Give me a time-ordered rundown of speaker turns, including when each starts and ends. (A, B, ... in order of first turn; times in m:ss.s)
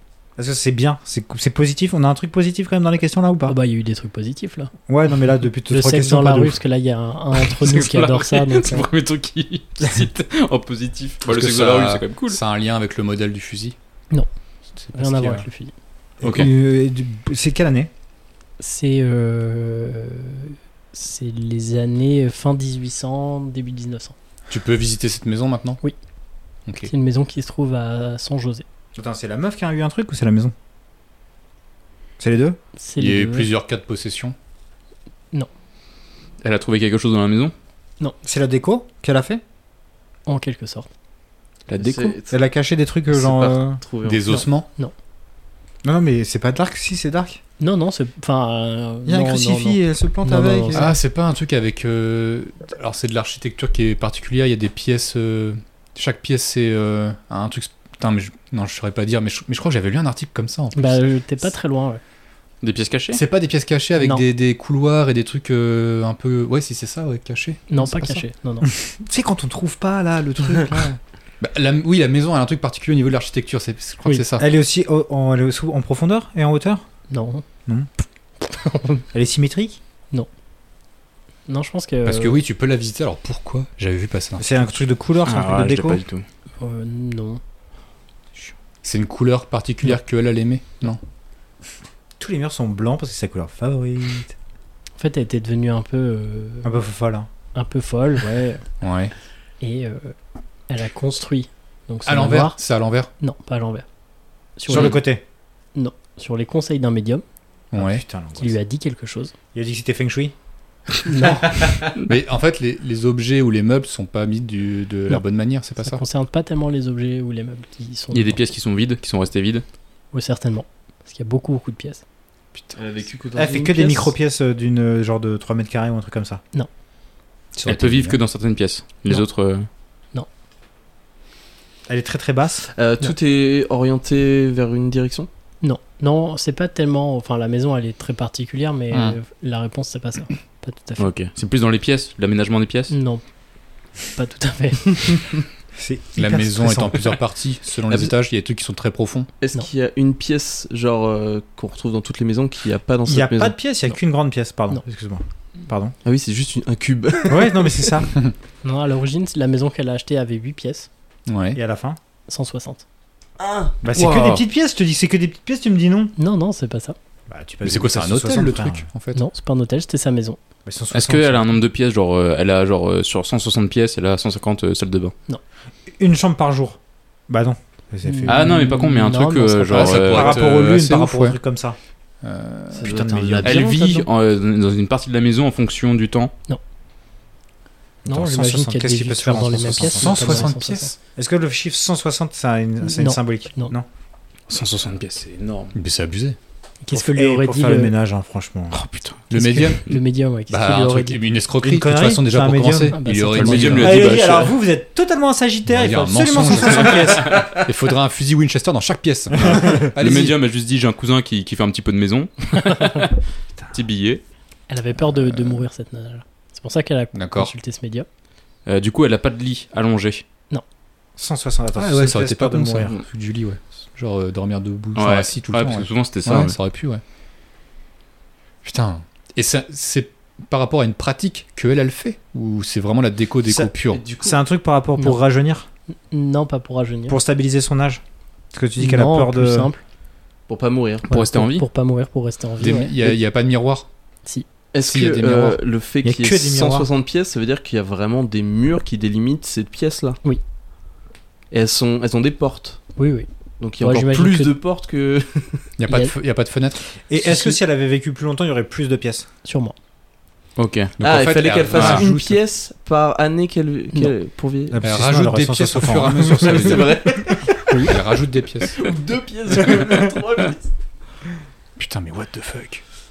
0:00.4-0:03.6 A
0:03.5-0:04.7 B
0:04.9-0:06.6 A
0:05.7-0:08.9 B
0:07.4-0:12.4 C
0:11.2-0:13.8 D
0:14.8-0:15.4 D
0:14.9-0:15.7 B
0:16.2-0:17.9 A
0:16.2-0:16.5 C
0:18.6-0:24.1 B
0:24.5-0:25.8 D
0:26.6-0:26.9 D
0:26.9-0:28.6 B
0:28.9-0:30.5 A
0:32.2-0:32.6 A
0:32.8-0:33.5 B
0:33.0-0:34.3 D
0:36.4-0:37.5 C
0:38.2-0:39.4 A
0:40.3-0:40.9 B
0:41.7-0:42.1 C
0:41.8-0:42.4 E
0:42.3-0:43.8 A
0:43.1-0:44.3 E
0:44.0-0:44.7 D
0:44.3-0:44.9 B
0:45.8-0:47.4 A
0:47.6-0:51.0 B
0:49.0-0:50.9 A
0:50.7-1:01.0 D
1:00.7-1:02.0 B
1:02.6-1:03.2 C
1:03.1-1:08.2 D
1:04.0-1:04.2 B
1:07.7-1:08.7 B
1:08.6-1:11.0 A
1:11.4-1:14.5 D
1:14.4-1:16.8 A
1:17.1-1:17.4 B
1:18.4-1:19.0 B
1:19.1-1:19.8 A
1:21.5-1:22.4 B
1:22.0-1:24.7 D
1:24.4-1:26.0 A
1:25.2-1:26.2 C
1:26.6-1:27.4 B
1:28.8-1:31.0 D
1:32.2-1:34.3 A
1:35.0-1:36.8 B
1:36.6-1:37.3 A
1:37.5-1:38.6 B
1:38.8-1:39.1 D
1:39.6-1:40.1 B
1:40.7-1:42.6 B
1:42.0-1:43.1 D
1:43.2-1:43.9 B
1:44.6-1:45.0 B
1:44.7-1:45.2 A
1:45.7-1:47.2 B
1:47.7-1:48.0 D
1:47.7-1:48.6 A
1:48.4-1:49.3 B
1:49.5-1:50.3 A
1:51.0-1:51.7 B
1:52.0-1:56.0 D
1:55.8-1:58.4 B
1:58.1-1:59.6 C
2:00.1-2:02.0 B
2:02.7-2:04.1 E
2:03.3-2:06.4 A
2:07.6-2:08.2 D
2:07.6-2:09.7 C
2:11.9-2:12.6 A
2:12.7-2:15.3 E
2:15.6-2:21.1 B
2:18.9-2:19.2 D
2:21.0-2:22.9 C
2:22.9-2:23.2 B
2:24.1-2:25.3 B
2:25.7-2:27.2 A
2:26.2-2:29.3 D
2:29.4-2:33.6 E
2:33.0-2:35.9 A
2:36.0-2:37.9 E
2:37.3-2:38.1 A
2:38.6-2:40.9 B
2:41.3-2:41.6 D
2:41.5-2:42.0 A
2:42.3-2:42.8 B
2:43.4-2:43.8 E
2:43.8-2:46.1 A
2:43.9-2:44.4 C
2:46.2-2:47.0 B
2:47.3-2:48.9 A
2:47.6-2:49.2 D
2:49.1-2:50.4 B
2:50.6-2:51.5 A
2:50.9-2:55.1 C
2:55.9-2:58.5 A
2:58.0-3:00.0 B
2:58.3-3:00.4 C
2:59.7-3:01.4 D
3:00.1-3:01.8 A
3:02.2-3:03.1 D
3:02.7-3:04.0 E
3:02.7-3:03.8 A
3:03.4-3:06.3 C
3:08.0-3:10.5 A
3:08.1-3:10.9 B
3:09.7-3:10.9 D
3:11.2-3:13.9 A
3:12.8-3:13.7 B
3:14.5-3:15.7 C
3:15.7-3:16.4 D
3:16.8-3:17.9 B
3:16.9-3:18.8 A
3:18.7-3:19.2 C
3:19.3-3:19.9 D
3:19.3-3:21.2 B
3:20.5-3:24.2 D
3:21.6-3:23.0 A
3:22.9-3:24.0 B
3:23.3-3:24.6 C
3:23.8-3:27.5 A
3:25.6-3:30.4 D
3:26.8-3:27.6 C
3:29.4-3:29.8 A
3:29.4-3:33.1 C
3:32.6-3:33.1 B
3:33.7-3:34.2 C
3:34.7-3:38.1 B
3:35.0-3:35.6 D
3:37.1-3:37.5 D
3:38.6-3:40.2 C
3:41.2-3:43.1 A
3:41.8-3:47.0 D
3:44.9-3:46.6 C
3:48.6-3:54.0 D
3:53.5-3:55.7 A
3:53.8-3:54.4 E
3:56.1-3:57.2 B
3:57.1-3:58.0 A
3:58.5-3:59.7 A
3:58.8-3:59.8 B
4:00.5-4:01.1 E
4:01.1-4:03.2 B
4:01.1-4:01.6 C
4:02.6-4:03.9 D
4:04.7-4:10.2 E
4:04.8-4:05.6 D
4:06.0-4:06.9 A
4:11.5-4:12.8 E
4:13.0-4:14.5 B
4:13.6-4:15.7 E
4:15.8-4:16.9 D
4:15.9-4:16.1 B
4:17.1-4:19.3 A
4:19.4-4:19.7 B
4:20.6-4:20.9 C
4:21.0-4:22.4 D
4:21.0-4:24.8 E
4:21.7-4:22.0 C
4:24.7-4:27.3 A
4:24.8-4:27.1 D
4:26.4-4:27.9 E
4:27.8-4:28.8 D
4:28.6-4:30.7 E
4:31.8-4:32.8 D